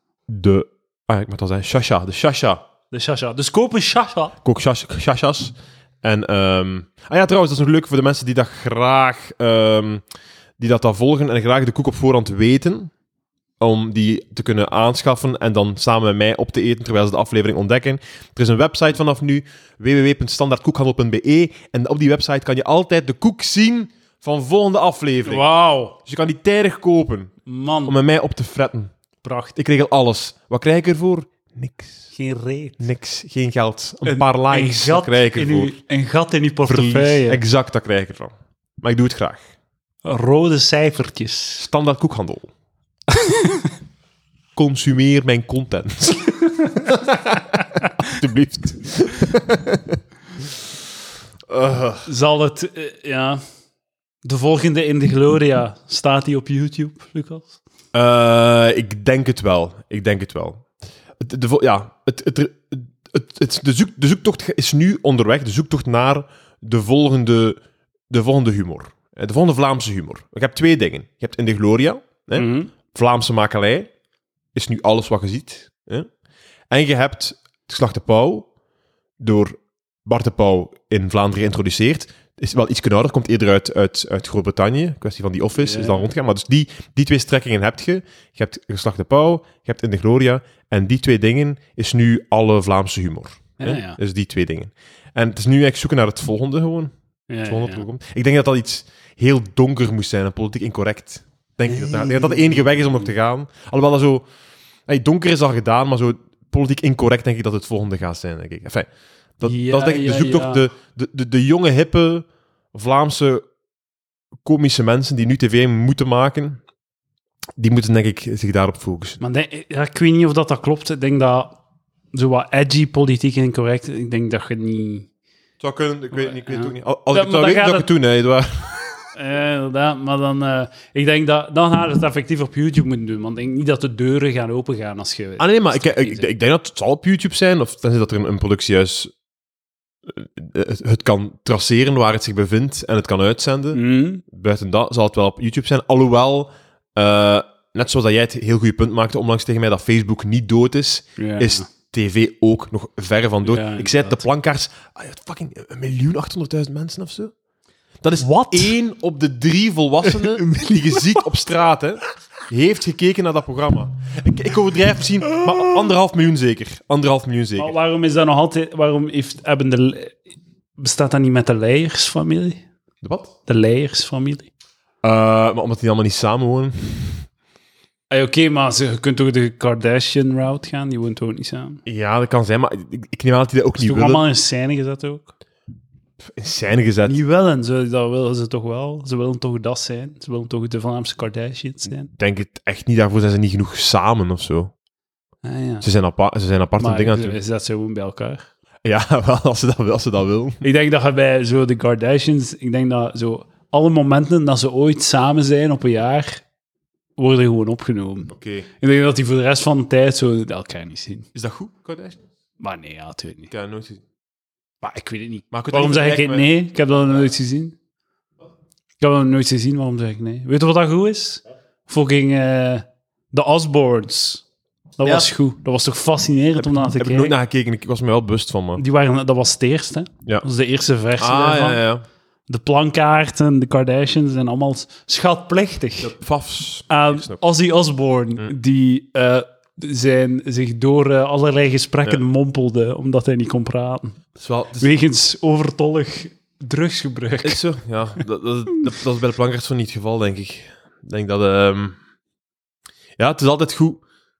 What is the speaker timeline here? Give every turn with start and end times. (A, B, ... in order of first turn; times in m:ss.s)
0:00.3-0:02.6 A
0:02.9-0:04.4 B
0:04.4-0:10.0 A
0:10.6-0:12.9 A
0:13.6-0:25.4 A
0:25.2-0:26.0 B
0:26.0-0:27.3 A
0:27.4-0:28.0 B
0:27.8-0:28.9 A
0:29.2-0:29.5 B
0:29.6-0:32.0 A
0:32.1-0:32.8 B
0:32.8-0:35.8 A
0:34.0-0:37.4 B
0:36.6-0:39.4 A
0:40.0-0:41.7 B
0:41.6-0:42.5 A
0:43.1-0:43.6 B
0:44.5-0:50.0 A
0:51.5-0:52.1 A
0:52.0-0:53.4 B
0:54.2-0:57.6 B
0:57.9-1:00.6 A
1:01.2-1:13.9 A
1:12.3-1:12.7 B
1:14.5-1:16.1 A
1:16.7-1:18.5 A
1:19.2-1:36.9 A
1:25.6-1:26.1 B
1:33.6-1:34.0 B
1:37.3-1:37.8 B
1:37.4-1:44.2 A
1:41.6-1:43.0 B
1:44.9-1:48.9 A
1:49.4-1:53.4 A
1:49.4-1:50.6 B
1:54.4-1:56.6 A
1:57.6-1:59.2 A
1:59.2-2:01.6 B
2:02.1-2:05.1 B
2:05.6-2:09.1 A
2:06.2-2:07.9 B
2:09.1-2:16.2 B
2:15.4-2:19.1 A
2:20.1-2:37.3 A
2:23.7-2:24.2 B
2:31.2-2:31.6 B
2:33.4-2:34.2 B
2:38.0-2:47.7 A
2:38.2-2:38.7 B
2:40.0-2:41.2 B
2:45.4-2:45.7 B
2:47.6-2:50.2 B
2:50.8-2:52.6 B
2:53.0-2:53.3 A
2:53.4-2:54.5 B
2:55.0-2:57.2 A
2:58.1-3:01.8 B
3:01.8-3:04.2 A
3:03.8-3:05.3 B
3:06.2-3:07.2 A
3:07.0-3:12.1 B
3:12.1-3:14.7 A
3:15.4-3:15.8 B
3:15.8-3:17.4 A
3:16.8-3:18.5 B
3:18.8-3:20.6 A
3:20.6-3:26.4 B
3:27.2-3:31.3 B
3:28.3-3:28.7 A
3:31.3-3:32.2 A
3:32.6-3:33.5 B
3:33.5-3:34.0 A
3:34.8-3:37.8 B
3:35.5-3:37.3 A
3:39.0-3:44.4 B
3:45.0-3:47.3 B
3:45.0-3:45.3 A
3:46.6-3:48.8 A
3:48.8-3:51.8 B
3:51.2-3:52.0 A
3:52.5-3:56.1 B
3:56.0-3:57.4 A
3:56.9-4:04.2 B
4:04.4-4:04.9 A
4:04.8-4:07.6 B
4:07.4-4:12.0 A
4:13.2-4:14.0 A